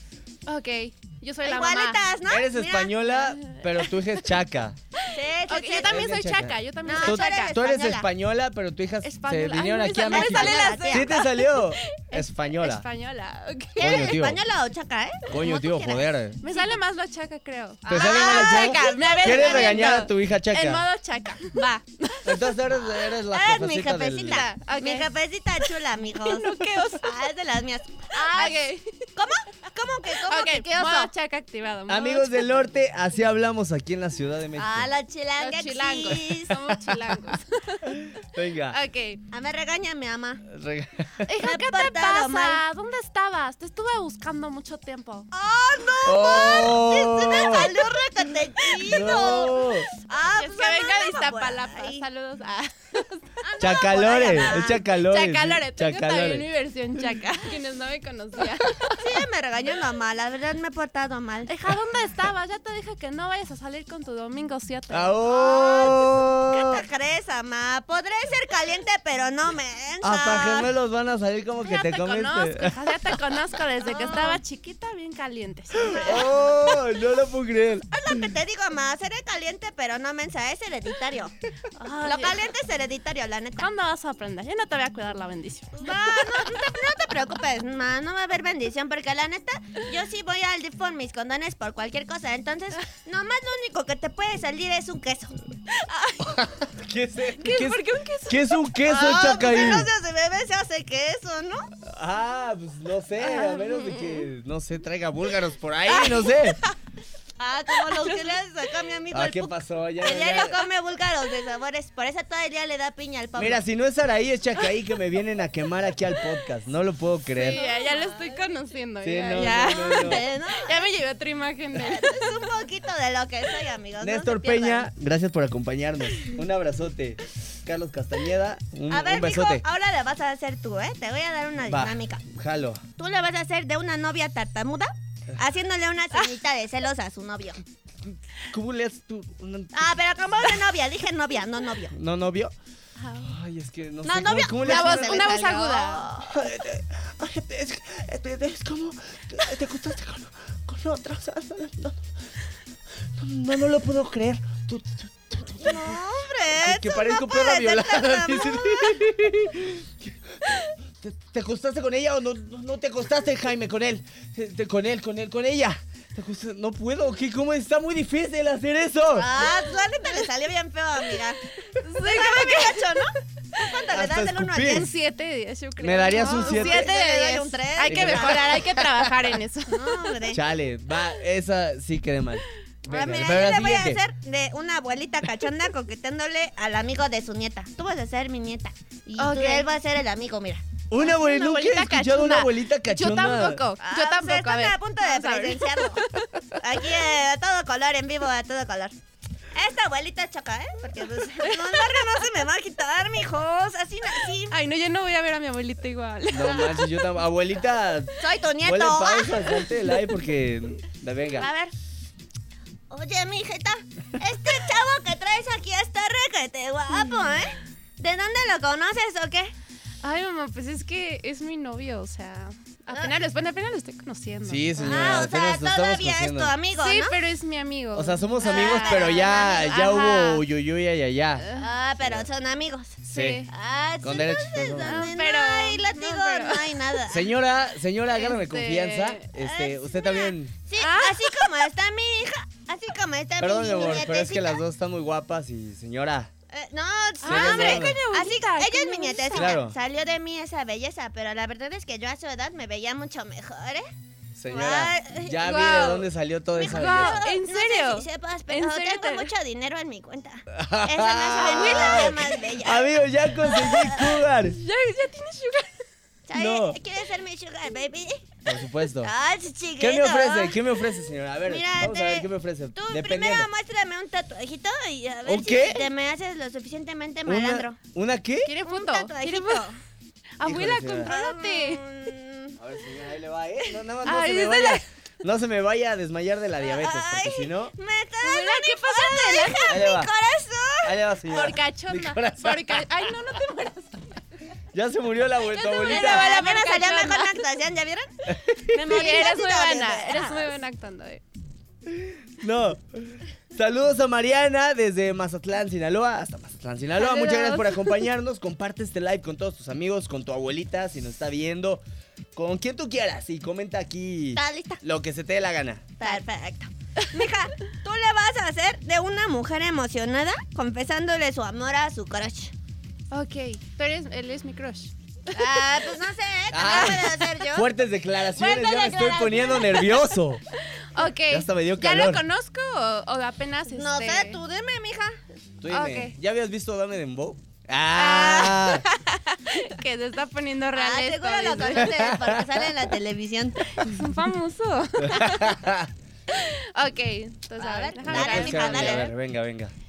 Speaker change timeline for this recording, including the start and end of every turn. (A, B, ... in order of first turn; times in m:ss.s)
0:00.5-0:02.0 A
0:01.4-0:03.0 B
0:02.3-0:04.8 C
0:03.1-0:04.3 A
0:05.0-0:07.5 A
0:05.1-0:06.1 B
0:05.8-0:12.8 C
0:06.8-0:08.1 B
0:09.0-0:14.1 A
0:10.0-0:11.1 B
0:13.8-0:16.8 B
0:13.8-0:14.4 C
0:15.3-0:16.4 C
0:16.4-0:22.5 A
0:17.9-0:19.9 B
0:17.9-0:20.8 C
0:22.2-0:24.5 C
0:23.3-0:28.6 B
0:24.2-0:25.1 A
0:25.6-0:27.1 A
0:28.1-0:29.1 A
0:29.2-0:31.1 B
0:30.2-0:32.6 A
0:31.9-0:34.9 C
0:34.6-0:36.8 B
0:35.4-0:39.2 A
0:37.9-0:38.8 C
0:39.3-0:40.4 B
0:40.5-0:41.3 C
0:41.3-0:45.3 A
0:41.4-0:42.6 B
0:45.3-0:52.0 B
0:46.0-0:47.8 C
0:48.7-0:49.9 C
0:50.4-0:59.2 A
0:53.4-0:54.8 B
0:53.6-0:56.5 C
0:58.9-1:01.5 B
1:01.5-1:05.2 A
1:04.9-1:06.8 C
1:05.2-1:10.7 B
1:10.0-1:13.2 C
1:11.6-1:16.3 A
1:13.8-1:14.4 B
1:15.8-1:18.2 C
1:15.9-1:16.3 B
1:17.9-1:21.3 B
1:21.8-1:22.5 A
1:22.0-1:23.7 B
1:23.6-1:26.6 A
1:25.8-1:35.4 B
1:35.7-1:36.4 A
1:36.2-1:39.9 C
1:37.4-1:38.6 A
1:38.8-1:41.7 B
1:41.8-1:46.6 C
1:43.4-1:44.1 A
1:43.4-1:44.2 B
1:45.9-1:46.7 B
1:47.4-1:53.6 B
1:49.1-1:50.6 C
1:53.4-1:57.6 C
1:57.4-2:02.4 A
1:57.5-1:58.6 B
1:59.0-2:00.2 C
1:59.3-2:00.9 B
2:01.7-2:04.9 B
2:04.0-2:09.6 C
2:08.9-2:12.2 B
2:11.7-2:12.8 C
2:13.0-2:17.6 B
2:18.1-2:19.8 C
2:19.7-2:21.9 B
2:21.9-2:22.5 C
2:23.0-2:23.4 A
2:23.2-2:25.4 C
2:24.0-2:26.4 B
2:24.6-2:26.3 A
2:26.3-2:32.0 C
2:33.2-2:36.0 C
2:35.6-2:39.0 B
2:36.6-2:49.3 C
2:49.1-2:54.9 B
2:51.6-2:53.1 A
2:53.9-2:54.9 C
2:54.7-3:00.1 A
2:55.8-2:56.9 C
2:56.2-2:58.8 B
2:57.9-2:59.2 C
2:59.7-3:00.4 B
3:00.3-3:04.0 C
3:02.9-3:10.6 B
3:09.2-3:09.7 A
3:10.9-3:13.6 C
3:11.0-3:16.6 A
3:13.8-3:19.0 B
3:19.5-3:24.6 B
3:21.0-3:22.2 A
3:24.5-3:27.1 A
3:26.3-3:31.5 C
3:28.2-3:29.6 B
3:31.4-3:31.7 B
3:32.9-3:39.5 B
3:36.9-3:37.5 A
3:40.0-3:45.3 A
3:44.5-3:46.5 C
3:44.8-3:47.2 B
3:46.8-3:50.4 A
3:47.9-3:51.5 C
3:48.4-3:49.6 B
3:51.4-3:51.7 A
3:51.6-3:57.3 B
3:52.0-3:52.3 C
3:53.0-3:53.5 A
3:53.1-3:53.5 C
3:54.0-3:55.1 C
3:54.8-3:57.0 A
3:57.1-4:00.5 C
3:58.1-3:59.2 A
3:59.4-4:04.6 B
4:00.8-4:01.7 A
4:03.4-4:06.3 C
4:06.5-4:13.9 B
4:07.2-4:08.0 C
4:07.2-4:09.6 A
4:09.4-4:09.8 C
4:14.4-4:17.2 C
4:14.5-4:15.8 B
4:15.4-4:16.1 A
4:16.5-4:22.9 B
4:16.6-4:19.3 A
4:20.5-4:24.6 C
4:21.4-4:22.3 A
4:23.4-4:24.0 B
4:23.8-4:25.7 A
4:26.3-4:28.4 B
4:26.3-4:26.8 C
4:28.5-4:29.1 C
4:29.0-4:30.6 B
4:29.8-4:33.5 C
4:31.5-4:37.8 B
4:35.2-4:35.9 C
4:37.3-4:38.5 C
4:38.4-4:39.7 A
4:38.6-4:39.8 B
4:40.4-4:41.8 A
4:40.4-4:41.1 C
4:41.0-4:42.6 B
4:42.6-4:47.7 C
4:44.0-4:44.8 A
4:46.6-4:51.0 B
4:48.2-4:49.9 A
4:49.7-4:50.1 C
4:50.8-4:52.9 C
4:51.3-4:54.2 A
4:54.7-4:56.4 C
4:55.5-4:57.4 A
4:55.9-5:00.5 B
4:58.3-4:58.8 C
4:58.8-5:01.2 A
5:01.9-5:11.8 C
5:07.0-5:08.0 A
5:12.4-5:15.9 C
5:14.3-5:14.8 B
5:16.0-5:22.5 B
5:23.1-5:25.9 A
5:25.3-5:27.7 B
5:26.5-5:30.4 C
5:26.7-5:27.3 A
5:28.4-5:29.9 B
5:28.4-5:30.0 A
5:30.7-5:34.4 A
5:31.3-5:32.2 C
5:33.7-5:35.2 B
5:35.6-5:38.8 C
5:35.7-5:36.2 A
5:38.0-5:42.1 A
5:40.8-5:43.9 B
5:41.8-5:42.6 C
5:43.8-5:45.6 A
5:45.0-5:45.9 C
5:46.3-5:49.1 A
5:47.6-5:49.1 B
5:48.0-5:49.7 C